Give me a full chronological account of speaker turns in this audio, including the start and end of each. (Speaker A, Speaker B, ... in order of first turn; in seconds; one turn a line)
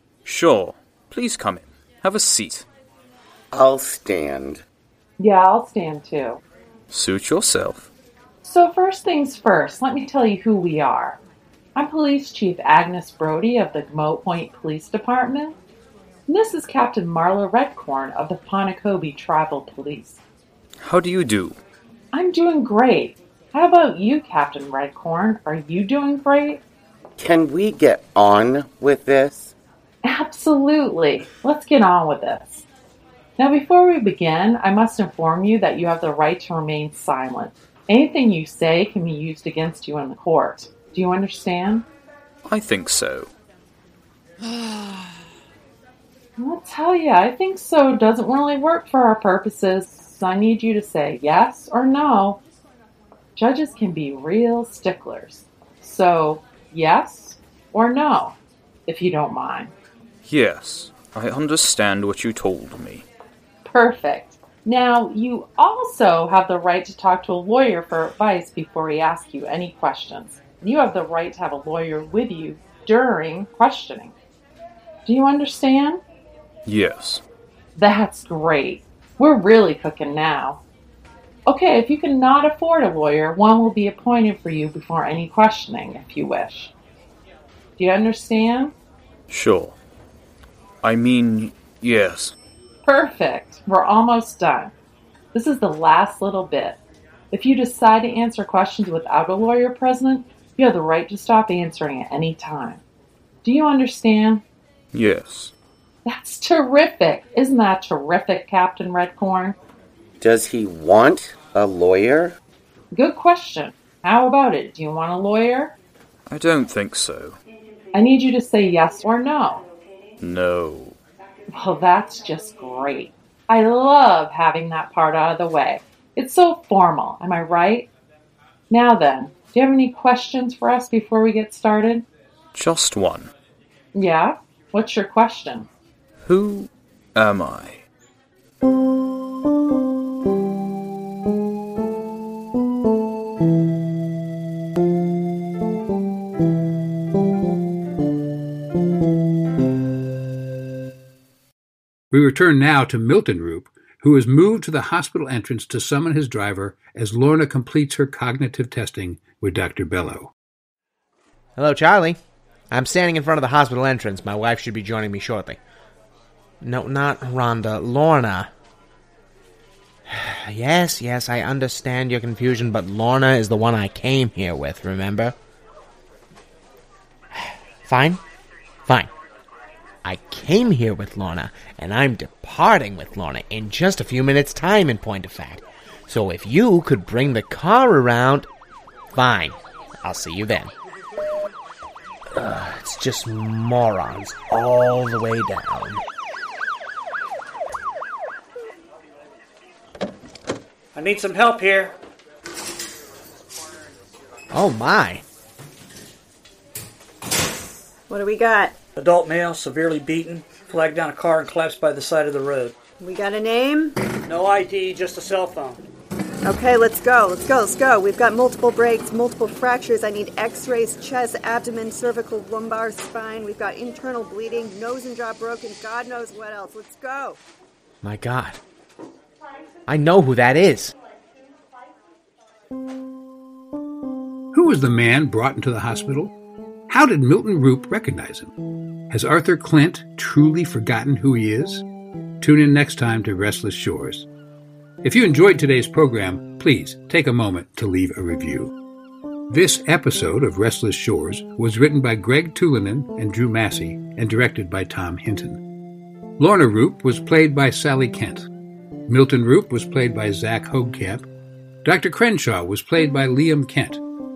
Speaker A: 0.2-2.6
Speaker B: 3.5-4.6
Speaker C: 5.2-6.4
Speaker A: 6.9-7.9
Speaker C: 8.4-11.2
Speaker C: 11.8-15.6
Speaker C: 16.3-20.2
Speaker A: 20.8-21.6
Speaker C: 22.1-26.6
Speaker B: 27.2-29.5
Speaker C: 30.0-32.7
Speaker C: 33.4-41.9
Speaker A: 42.5-43.3
Speaker C: 46.4-52.4
Speaker C: 53.4-59.7
Speaker A: 60.3-63.0
Speaker C: 63.6-74.1
Speaker C: 75.1-76.0
Speaker A: 76.7-77.2
Speaker C: 77.8-80.6
Speaker C: 81.5-86.7
Speaker C: 87.8-88.7
Speaker A: 89.3-89.8
Speaker A: 90.8-92.3
Speaker C: 92.8-94.7
Speaker C: 95.3-96.8
Speaker C: 97.3-102.8
Speaker C: 103.4-104.4
Speaker A: 104.9-105.5
Speaker C: 106.0-109.6
Speaker B: 110.2-112.4
Speaker C: 112.9-115.8
Speaker A: 116.3-117.4
Speaker C: 117.9-119.7
Speaker A: 120.2-121.0
Speaker C: 121.5-127.9
Speaker C: 128.7-132.1
Speaker A: 132.6-133.3
Speaker C: 133.9-135.7
Speaker A: 136.2-137.8
Speaker D: 152.1-160.3
Speaker E: 161.6-162.2
Speaker E: 162.7-165.6
Speaker E: 166.6-168.5
Speaker E: 170.1-175.3
Speaker E: 177.3-178.2
Speaker E: 180.1-188.5
Speaker E: 189.1-190.7
Speaker E: 192.3-196.0
Speaker F: 201.0-201.9
Speaker E: 204.5-205.2
Speaker G: 208.1-208.8
Speaker F: 209.0-212.7
Speaker G: 213.0-214.0
Speaker F: 214.3-215.8
Speaker G: 216.4-227.4
Speaker E: 228.0-228.6
Speaker E: 229.9-230.9
Speaker D: 234.5-236.3
Speaker D: 236.9-238.5
Speaker D: 239.1-241.8
Speaker D: 242.4-244.3
Speaker D: 245.0-248.7
Speaker D: 249.5-255.6
Speaker D: 256.4-258.5
Speaker D: 259.1-261.3
Speaker D: 261.8-264.0